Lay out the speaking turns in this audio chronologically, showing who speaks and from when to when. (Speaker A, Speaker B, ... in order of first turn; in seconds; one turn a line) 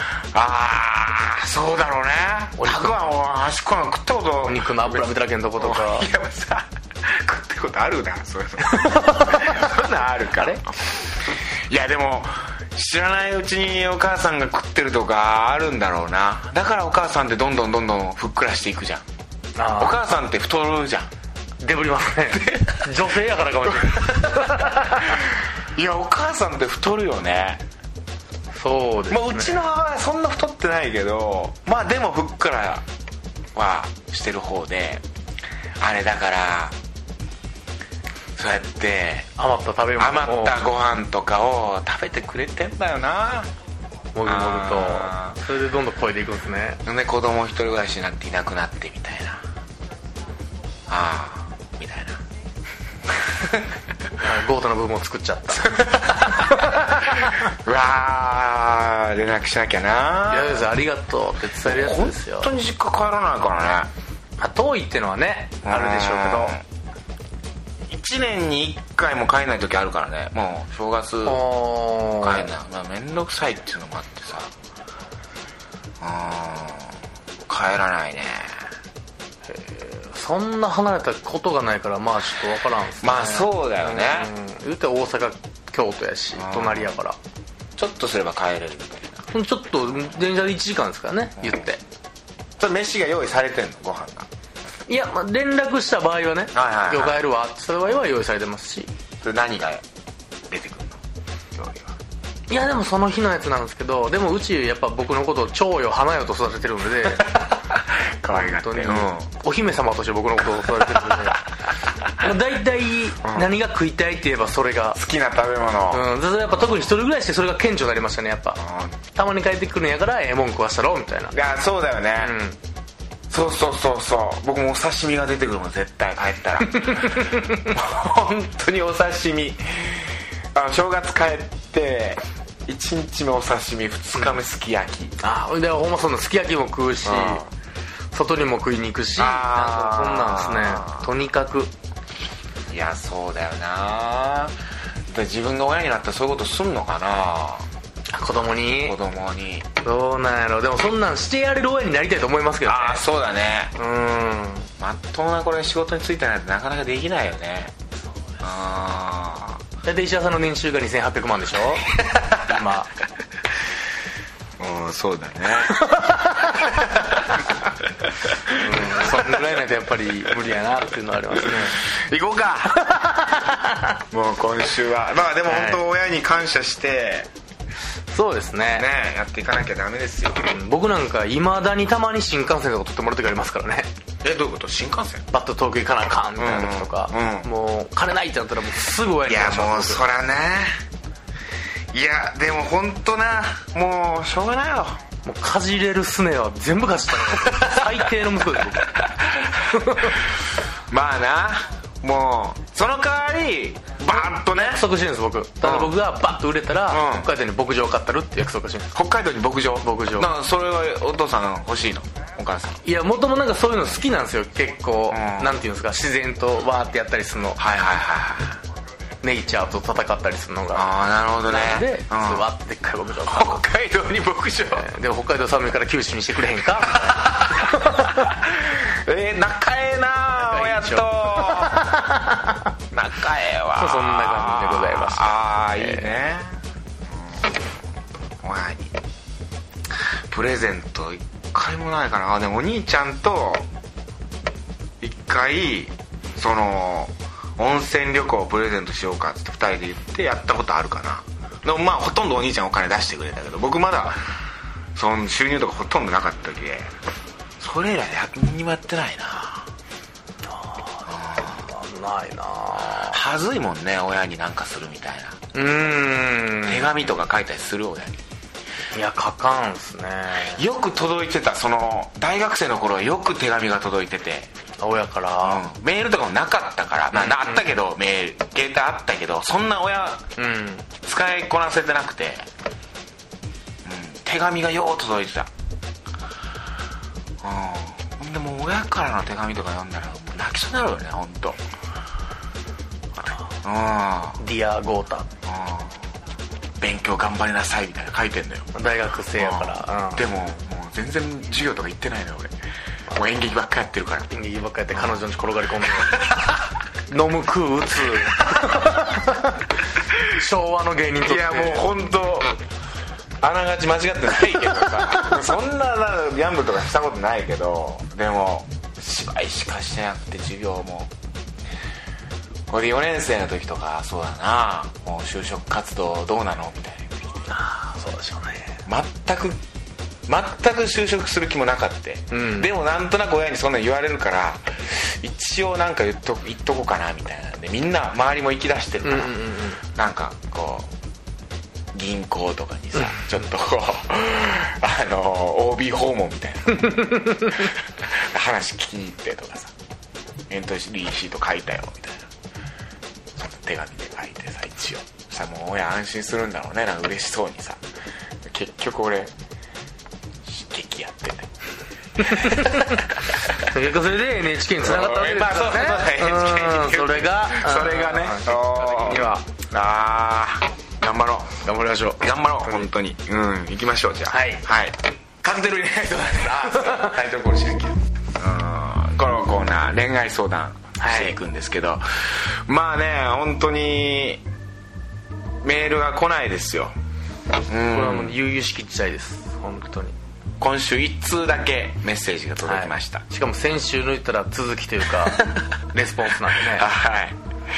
Speaker A: 0.3-5.0
Speaker B: 2.6-3.1
Speaker B: 4.5-6.1
Speaker A: 5.6-19.0
Speaker B: 8.8-9.7
Speaker B: 10.3-10.6
Speaker B: 19.6-20.0
Speaker A: 19.8-21.1
Speaker B: 21.6-25.2
Speaker A: 22.4-22.9
Speaker A: 23.8-27.6
Speaker B: 28.5-29.6
Speaker A: 29.1-32.9
Speaker A: 33.5-35.0
Speaker A: 35.8-36.8
Speaker A: 38.4-39.3
Speaker B: 39.4-40.6
Speaker A: 40.0-43.5
Speaker B: 44.1-46.8
Speaker A: 44.2-45.4
Speaker A: 46.9-49.4
Speaker A: 50.9-52.2
Speaker B: 54.2-57.4
Speaker A: 55.8-60.7
Speaker B: 60.3-62.5
Speaker A: 61.6-63.9
Speaker B: 64.4-66.6
Speaker A: 65.6-66.6
Speaker A: 67.9-71.5
Speaker B: 71.2-72.5
Speaker A: 72.1-74.5
Speaker A: 76.0-78.6
Speaker B: 79.5-87.2
Speaker A: 83.0-84.3
Speaker A: 86.4-87.0
Speaker A: 87.8-89.2
Speaker B: 89.3-91.8
Speaker A: 92.6-94.3
Speaker B: 94.9-98.9
Speaker A: 96.5-97.2
Speaker A: 99.2-99.8
Speaker A: 100.5-101.0
Speaker A: 101.5-102.0
Speaker B: 102.5-107.3
Speaker A: 107.2-109.3
Speaker B: 108.3-111.4
Speaker B: 112.2-115.0
Speaker A: 113.2-113.5
Speaker A: 115.0-116.1
Speaker B: 115.9-118.6
Speaker A: 118.6-119.0
Speaker B: 119.1-121.4
Speaker A: 121.3-122.4
Speaker B: 122.2-122.6
Speaker A: 123.3-135.2
Speaker B: 126.8-127.6
Speaker B: 135.2-137.4
Speaker A: 137.1-137.5
Speaker B: 138.1-141.7
Speaker A: 139.2-141.1
Speaker A: 142.7-144.5
Speaker A: 145.1-147.7
Speaker B: 148.1-149.0
Speaker A: 148.8-149.7
Speaker B: 149.8-153.0
Speaker A: 152.6-153.8
Speaker B: 153.8-154.7
Speaker A: 154.8-157.8
Speaker A: 158.4-159.6
Speaker B: 159.8-161.9
Speaker A: 162.1-162.4
Speaker B: 162.4-162.9
Speaker A: 164.6-169.4
Speaker B: 165.9-166.8
Speaker B: 168.5-171.8
Speaker A: 171.5-172.9
Speaker B: 172.8-174.0
Speaker A: 174.1-177.3
Speaker B: 175.5-175.8
Speaker B: 178.1-178.9
Speaker A: 178.7-180.5
Speaker B: 180.4-183.9
Speaker A: 184.2-185.2
Speaker B: 185.3-190.0
Speaker A: 186.4-187.5
Speaker A: 189.3-190.8
Speaker A: 191.9-195.0
Speaker B: 195.2-198.9
Speaker A: 198.9-200.2
Speaker B: 199.7-200.1
Speaker A: 200.9-204.8
Speaker B: 204.1-208.9
Speaker A: 205.6-205.9
Speaker A: 206.9-207.3
Speaker A: 208.9-212.8
Speaker B: 209.8-210.3
Speaker B: 212.8-217.6
Speaker A: 215.1-215.6
Speaker A: 217.6-218.6
Speaker B: 219.2-220.9
Speaker A: 220.7-222.5
Speaker B: 221.5-223.6
Speaker A: 223.2-224.9
Speaker B: 224.7-228.2
Speaker A: 226.9-232.0
Speaker B: 230.4-232.7
Speaker A: 232.9-236.6
Speaker B: 233.8-236.1
Speaker A: 237.1-237.7
Speaker A: 238.4-238.9
Speaker A: 240.3-243.7
Speaker A: 245.0-254.3
Speaker A: 254.9-256.9
Speaker A: 257.6-259.7
Speaker B: 260.4-263.2
Speaker A: 261.1-261.6
Speaker A: 263.0-265.5
Speaker B: 265.5-266.9
Speaker A: 266.6-268.2
Speaker B: 268.9-270.6
Speaker A: 270.5-274.5
Speaker B: 274.8-275.6
Speaker A: 275.4-280.3
Speaker B: 277.1-277.6
Speaker B: 280.4-280.9
Speaker A: 281.0-282.5
Speaker A: 283.9-285.5
Speaker A: 287.4-291.6
Speaker A: 293.2-294.4
Speaker B: 294.4-295.3
Speaker A: 295.4-296.0
Speaker A: 296.8-298.7
Speaker B: 298.7-300.2
Speaker A: 299.4-302.5
Speaker A: 303.1-304.3
Speaker B: 304.3-306.4
Speaker A: 304.9-305.2
Speaker B: 307.1-309.6
Speaker B: 310.3-311.9
Speaker A: 311.2-312.6
Speaker A: 313.4-321.1
Speaker A: 322.7-327.5
Speaker B: 327.5-328.8
Speaker A: 328.9-329.6
Speaker A: 330.3-340.9
Speaker B: 332.3-332.7
Speaker B: 339.0-339.8
Speaker A: 341.9-349.7
Speaker A: 350.5-352.2
Speaker A: 353.4-357.8
Speaker A: 358.5-359.3
Speaker A: 360.5-361.5
Speaker A: 362.2-363.7
Speaker B: 362.2-363.0
Speaker B: 363.6-369.5
Speaker A: 364.8-371.6
Speaker B: 371.6-372.9
Speaker A: 372.2-384.4
Speaker B: 374.3-374.6
Speaker B: 376.5-377.2
Speaker B: 381.0-381.4
Speaker A: 385.6-386.9
Speaker A: 387.7-388.4
Speaker B: 387.9-390.1
Speaker A: 390.6-393.2
Speaker B: 392.6-396.9
Speaker A: 396.7-397.4